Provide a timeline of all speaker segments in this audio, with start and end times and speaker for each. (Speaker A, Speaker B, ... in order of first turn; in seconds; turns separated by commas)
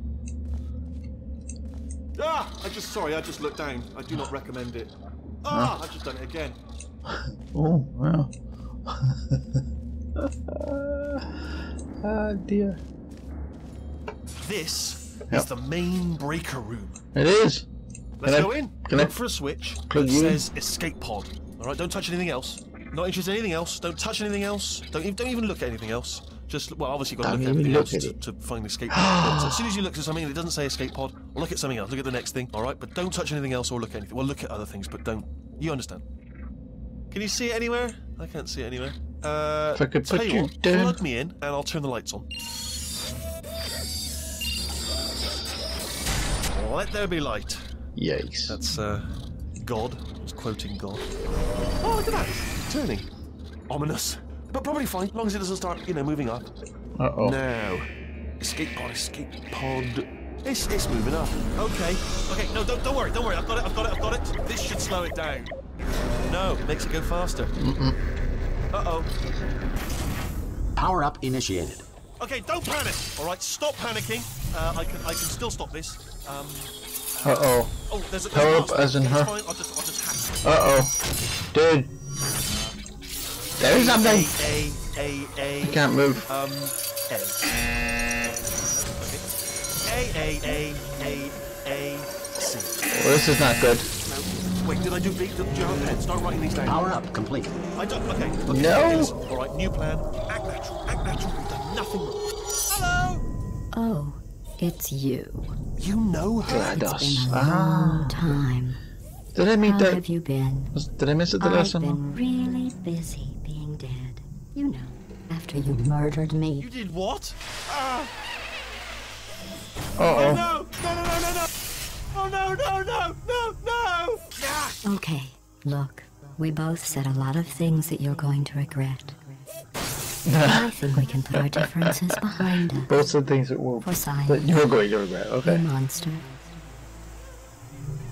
Speaker A: 2.1-6.6, Speaker B: 5.5-5.7, Speaker B: 7.1-8.3, Speaker B: 8.8-9.6, Speaker B: 10.2-11.4, Speaker B: 12.0-12.8, Speaker A: 14.3-17.0, Speaker B: 17.1-17.6, Speaker A: 18.2-36.0, Speaker B: 18.2-19.1, Speaker B: 19.9-20.4, Speaker B: 27.2-28.2, Speaker B: 28.9-29.7, Speaker A: 37.1-42.3, Speaker B: 39.7-41.0, Speaker A: 46.5-47.6, Speaker B: 48.0-48.6, Speaker A: 48.5-51.1, Speaker A: 51.8-53.1, Speaker A: 53.7-56.5, Speaker B: 57.0-57.4, Speaker A: 57.2-57.9, Speaker A: 58.4-65.5, Speaker A: 66.2-67.5, Speaker B: 67.5-68.0, Speaker A: 68.7-69.1, Speaker C: 70.8-71.8, Speaker A: 72.2-80.6, Speaker B: 77.2-77.7, Speaker B: 78.3-79.3, Speaker B: 80.4-80.9, Speaker B: 81.5-81.9, Speaker A: 82.5-82.8, Speaker A: 83.6-92.9, Speaker B: 83.6-84.3, Speaker B: 85.6-86.2, Speaker B: 92.9-93.9, Speaker A: 94.0-96.9, Speaker C: 96.7-97.6, Speaker A: 97.7-103.2, Speaker B: 98.5-99.1, Speaker D: 103.7-105.5, Speaker A: 105.8-106.7, Speaker B: 106.5-108.4, Speaker D: 106.5-108.8, Speaker B: 109.3-110.0, Speaker D: 109.6-110.7, Speaker B: 110.7-112.0, Speaker D: 111.4-116.7, Speaker A: 116.6-118.1, Speaker B: 120.0-120.4, Speaker A: 120.0-121.5, Speaker A: 122.1-124.8, Speaker D: 124.8-129.2, Speaker B: 130.2-131.9, Speaker D: 130.4-132.9, Speaker B: 132.6-135.6, Speaker D: 133.8-134.6, Speaker D: 135.4-136.3